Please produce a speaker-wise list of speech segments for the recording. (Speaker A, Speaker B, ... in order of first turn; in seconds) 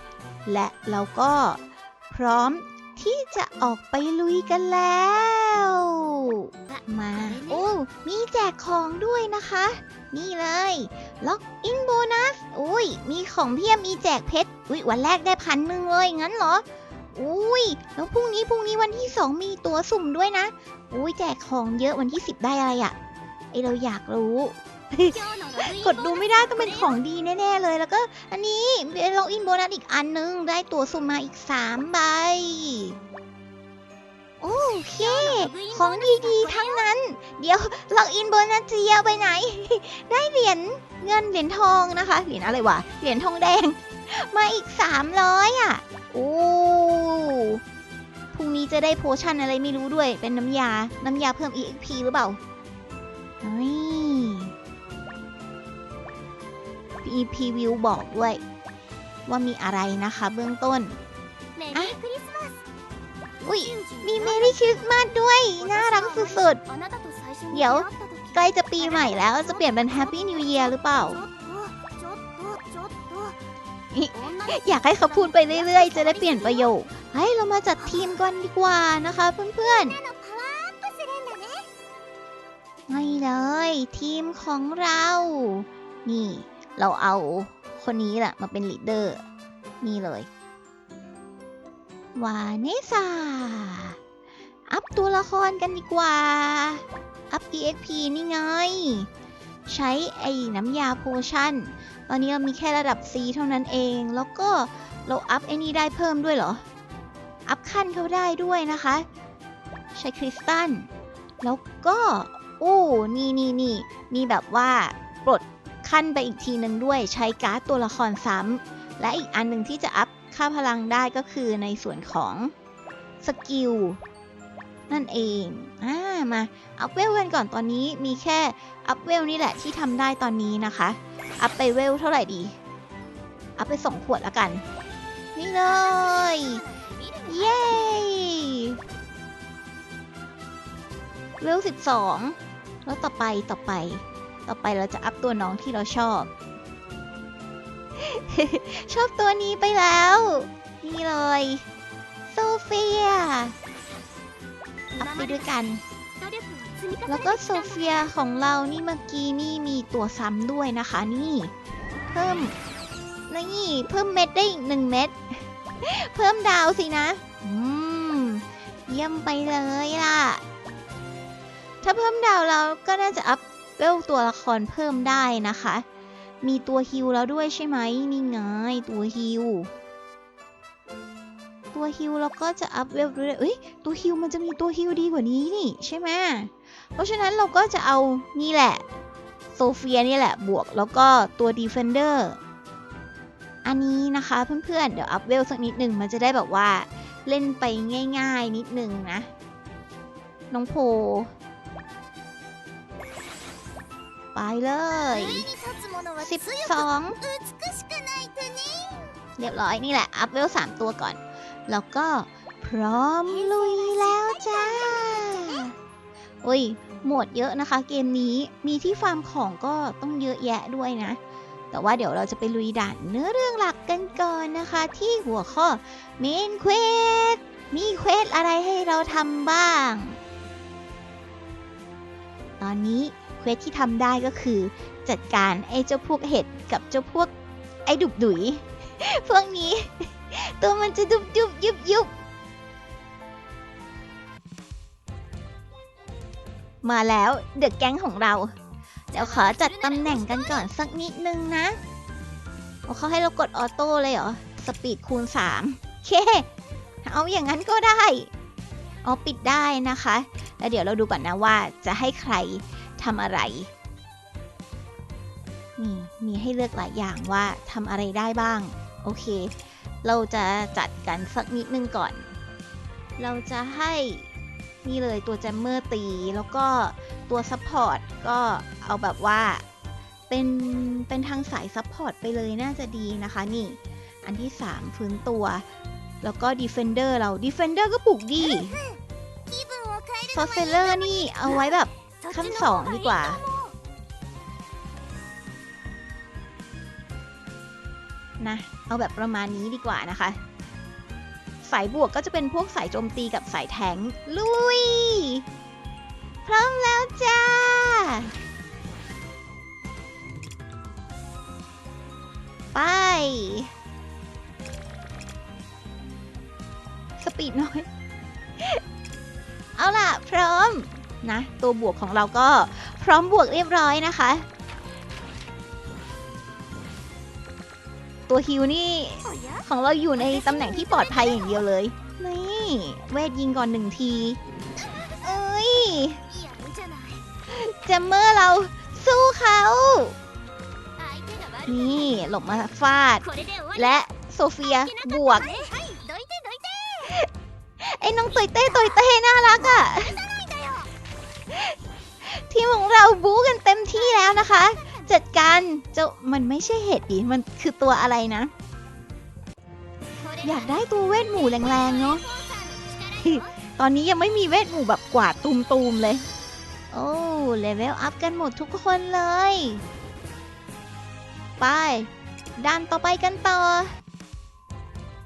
Speaker A: 0.5-22.9, 23.5-33.0, 34.4-47.6, 48.3-52.4, 53.4-54.5, 57.0-58.4, 59.3-61.0, 63.4-66.6, 67.5-71.2, 73.9-80.0, 82.9-89.2, 89.8-90.3, 92.2-94.0, 94.7-99.1, 99.7-106.6, 107.5-109.0, 110.0-110.9, 111.4-122.5, 123.2-124.0, 124.9-132.6, 133.6-134.6, 135.3-136.6, 137.3-138.8, 141.4-146.3, 148.0-151.6, 152.3-153.5, 155.0-155.8, 157.1-161.5, 162.1-162.5, 163.3-170.4, 171.8-175.8, 176.4-179.7, 181.7-188.8, 189.5-192.4, 193.6-199.3, 200.5-201.3, 204.3-205.4, 206.2-207.2, 209.4-215.7, 216.4-221.2, 221.7-230.2, 232.6-237.3, 237.8-242.1, 246.8-248.5, 249.1-251.8, 252.9-256.5, 257.0-258.3, 259.0-263.7, 265.8-269.5, 270.0-272.3, 273.2-274.3, 274.8-279.6, 280.3-285.6, 286.2-288.8, 290.3-293.4, 298.4-300.4, 301.6-305.4, 306.4-308.3, 312.7-313.7, 317.2-317.9, 319.8-324.4, 328.3-334.4, 335.2-336.2, 337.5-340.1, 341.6-345.5, 347.8-350.1, 351.5-358.5, 360.4-362.2, 363.2-366.2, 366.9-369.8, 371.6-374.0
Speaker B: 6.7-7.7, 25.1-27.0, 34.5-36.9, 42.4-43.0, 61.5-62.6, 63.4-73.4, 74.1-76.7, 77.8-78.2, 79.6-81.7, 135.6-138.1, 154.9-155.5, 156.2-158.1, 205.1-209.2, 213.2-215.7, 249.1-250.7, 288.4-293.7, 329.2-331.6, 334.8-337.3, 341.0-342.3, 343.2-344.0, 344.6-347.2, 348.3-350.9, 353.9-355.2, 360.2-363.6